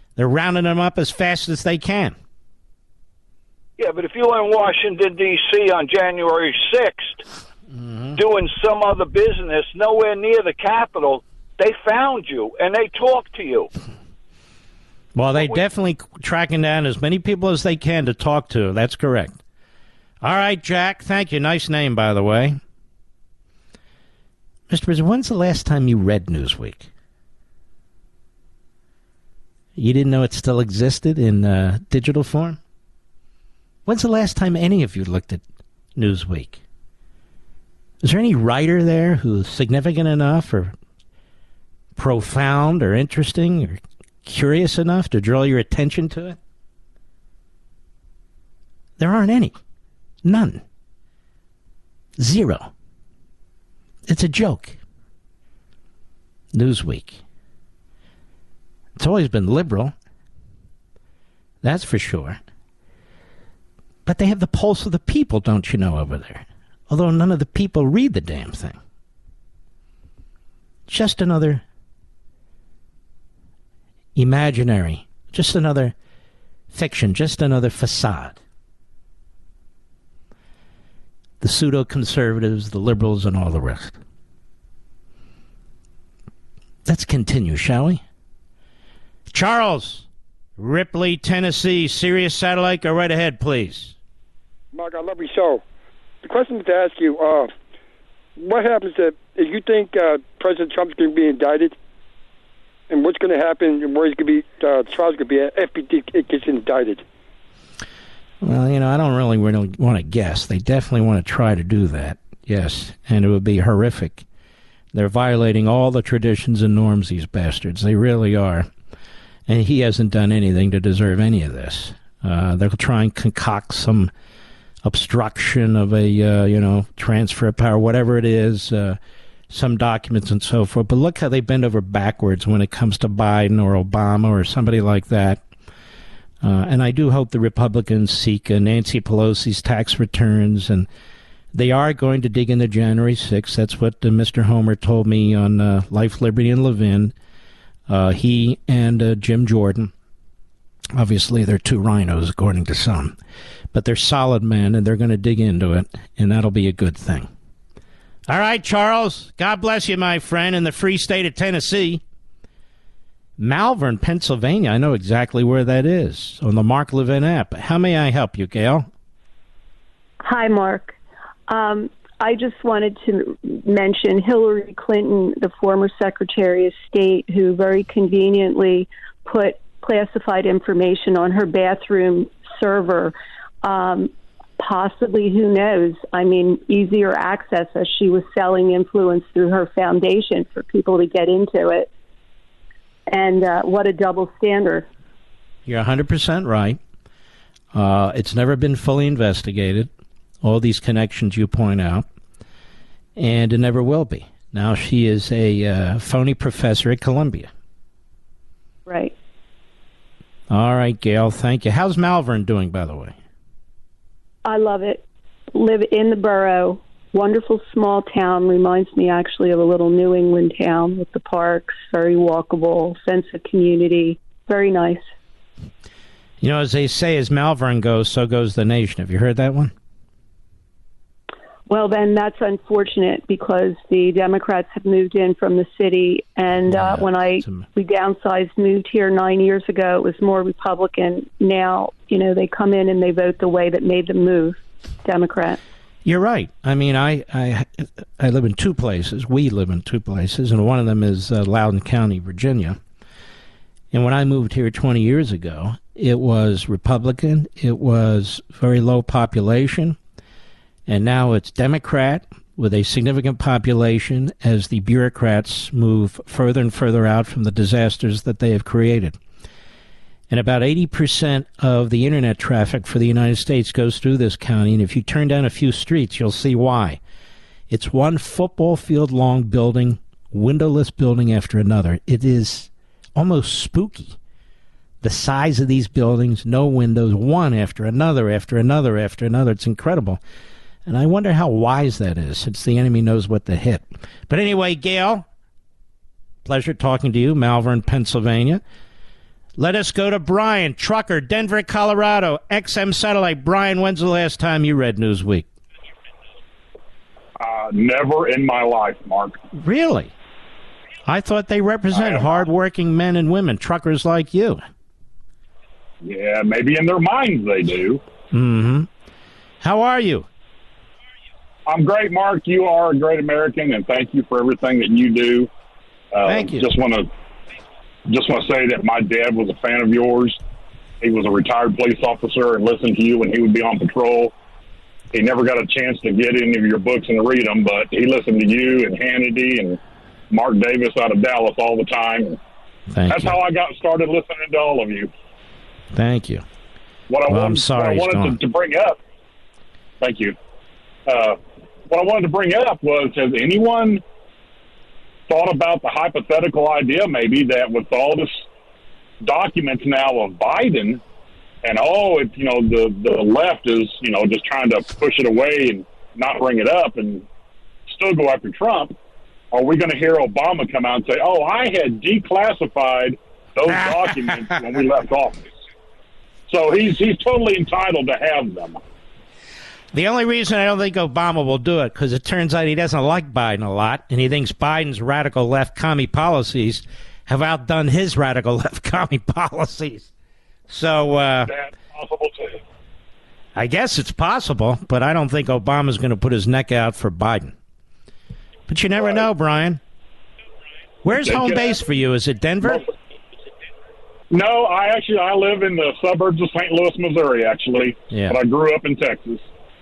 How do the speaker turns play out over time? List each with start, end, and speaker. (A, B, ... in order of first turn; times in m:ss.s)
0:00.2-0:02.2 A
0:03.8-0:07.2 B
0:07.7-0:08.2 A
0:08.1-0:13.7 B
0:15.1-0:19.4 A
0:20.2-0:22.6 A
0:24.7-0:26.9 A
0:29.8-0:32.6 A
0:33.8-0:35.4 A
0:36.0-0:36.6 A
0:38.0-0:40.7 A
0:42.0-0:46.4 A
0:49.0-0:49.6 A
0:50.2-0:50.6 A
0:52.2-0:52.7 A
0:54.1-0:54.8 A
0:56.5-0:57.2 A
0:59.0-0:59.9 A
1:01.6-1:02.4 A
1:04.0-1:08.8 A
1:10.9-1:11.6 A
1:14.2-1:15.9 A
1:16.7-1:18.4 A
1:21.4-1:24.0 A
1:26.8-1:28.0 A
1:29.3-1:30.0 A
1:30.6-1:33.9 A
1:34.7-1:35.6 C
1:36.2-1:37.5 C
1:38.4-1:41.8 C
1:42.9-1:47.0 C
1:48.4-1:54.2 A
1:54.9-1:58.7 A
1:59.5-2:04.1 A
2:04.8-2:09.0 A
2:09.5-2:15.4 A
2:16.4-2:20.9 A
2:21.5-2:27.1 A
2:27.9-2:29.9 A
2:30.9-2:33.2 A
2:33.7-2:37.3 A
2:38.3-2:42.0 A
2:43.4-2:48.9 A
2:50.2-2:51.0 D
2:51.5-3:11.9 D
3:13.1-3:14.9 D
3:15.6-3:16.8 A
3:17.7-3:19.9 A
3:20.4-3:22.0 A
3:23.2-3:27.5 A
3:28.9-3:29.1 D
3:30.5-3:33.2 A
3:34.4-3:45.0 D
3:46.4-3:49.7 A
3:51.7-4:05.6 D
3:56.7-3:57.6 A
4:06.0-4:12.8 A
4:13.9-4:20.0 A
4:20.9-4:29.2 A
4:30.3-4:37.0 A
4:37.7-4:44.2 A
4:45.0-4:50.2 A
4:50.8-4:55.2 A
4:56.4-4:58.6 A
4:59.6-5:05.5 A
5:07.4-5:09.4 E
5:09.5-5:10.1 A
5:11.1-5:14.6 A
5:11.9-5:12.4 E
5:16.0-5:18.0 E
5:18.3-5:18.9 A
5:19.6-5:20.3 A
5:21.7-5:25.5 E
5:26.1-5:27.1 E
5:26.2-5:26.7 A
5:28.1-5:30.4 E
5:31.0-5:34.3 E
5:35.1-5:39.8 E
5:40.3-5:42.4 E
5:42.9-5:43.4 A
5:43.1-5:45.1 E
5:45.9-5:46.4 A
5:47.1-5:49.0 E
5:47.3-5:48.4 A
5:50.0-5:50.4 E
5:51.0-5:51.4 E
5:51.9-5:54.0 E
5:55.3-5:58.5 E
5:59.2-6:01.0 E
6:01.6-6:07.2 E
6:07.9-6:08.9 E
6:09.5-6:15.5 E
6:13.7-6:14.5 A
6:16.5-6:18.8 E
6:19.9-6:30.1 A
6:30.7-6:31.5 A
6:31.4-6:32.6 E
6:33.6-6:37.5 A
6:38.7-6:39.8 A
6:39.0-6:39.2 E
6:41.0-6:42.8 A
6:41.2-6:41.8 E
6:44.3-6:49.5 E
6:48.1-6:48.4 A